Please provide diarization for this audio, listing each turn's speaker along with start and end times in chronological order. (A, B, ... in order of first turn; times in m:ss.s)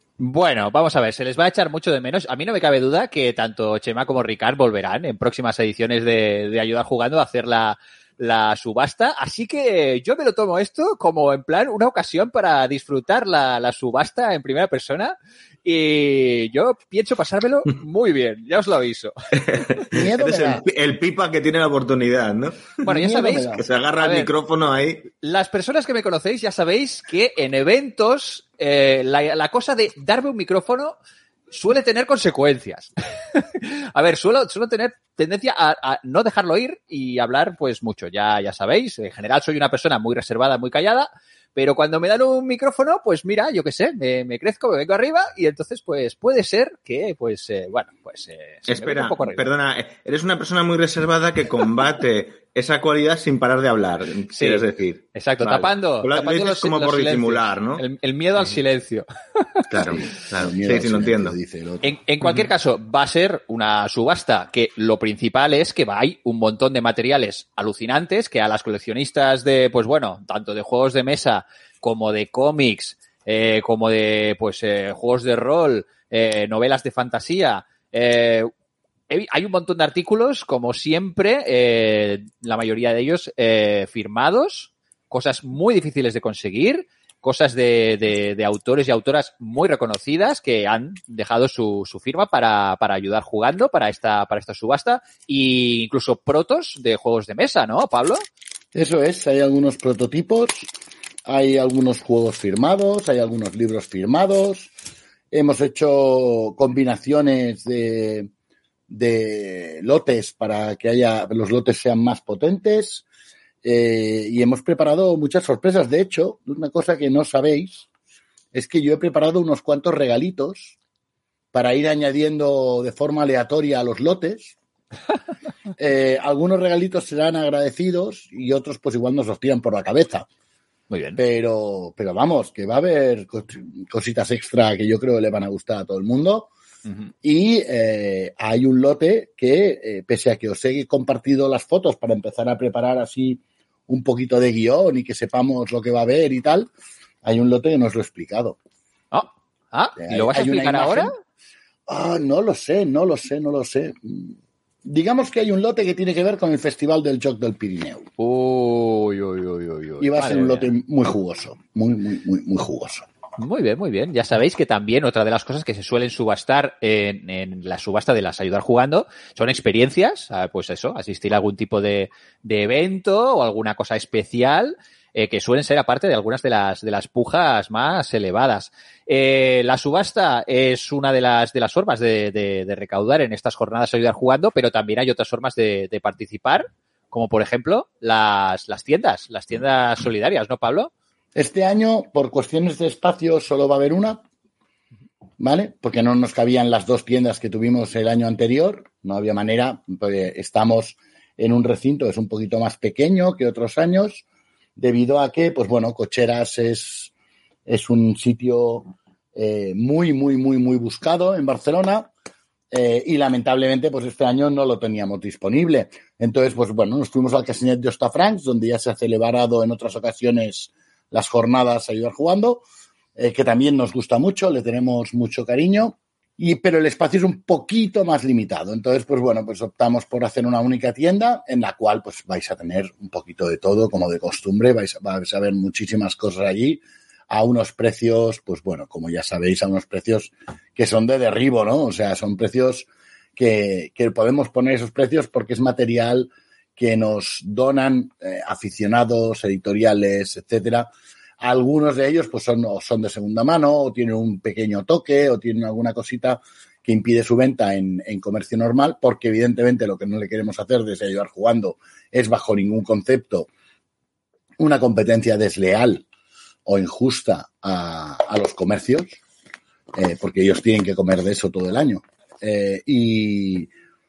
0:00.2-0:15.1 A
0:15.6-0:19.6 A
0:19.4-0:22.8 B
0:19.9-0:20.6 C
0:22.8-0:24.3 A
0:22.8-0:23.6 C
0:23.5-0:25.1 B
0:25.2-0:31.0 A
0:31.5-0:49.4 A
0:48.7-0:57.8 B
0:54.3-0:59.6 A
0:59.7-1:01.3 B
0:59.8-1:01.8 C
1:01.8-1:18.5 A
1:19.1-1:38.2 A
1:38.7-1:40.7 C
1:41.2-1:44.7 C
1:45.3-1:48.3 C
1:48.9-1:53.0 C
1:53.6-1:57.8 C
1:58.5-2:00.8 C
2:01.5-2:04.6 C
2:05.8-2:10.2 C
2:10.9-2:11.2 A
2:11.2-2:16.5 C
2:17.2-2:26.7 C
2:27.2-2:28.6 C
2:29.1-2:31.1 A
2:30.0-2:31.1 C
2:31.9-2:38.1 C
2:38.2-2:40.7 A
2:40.0-2:43.0 C
2:43.4-3:10.9 A
3:11.3-3:14.2 C
3:15.4-3:24.2 C
3:24.8-3:27.1 C
3:27.6-3:32.1 C
3:32.7-3:42.6 C
3:43.2-4:10.9 C
4:11.4-4:23.5 C
4:24.6-4:26.0 C
4:26.6-4:29.2 C
4:29.9-4:33.7 C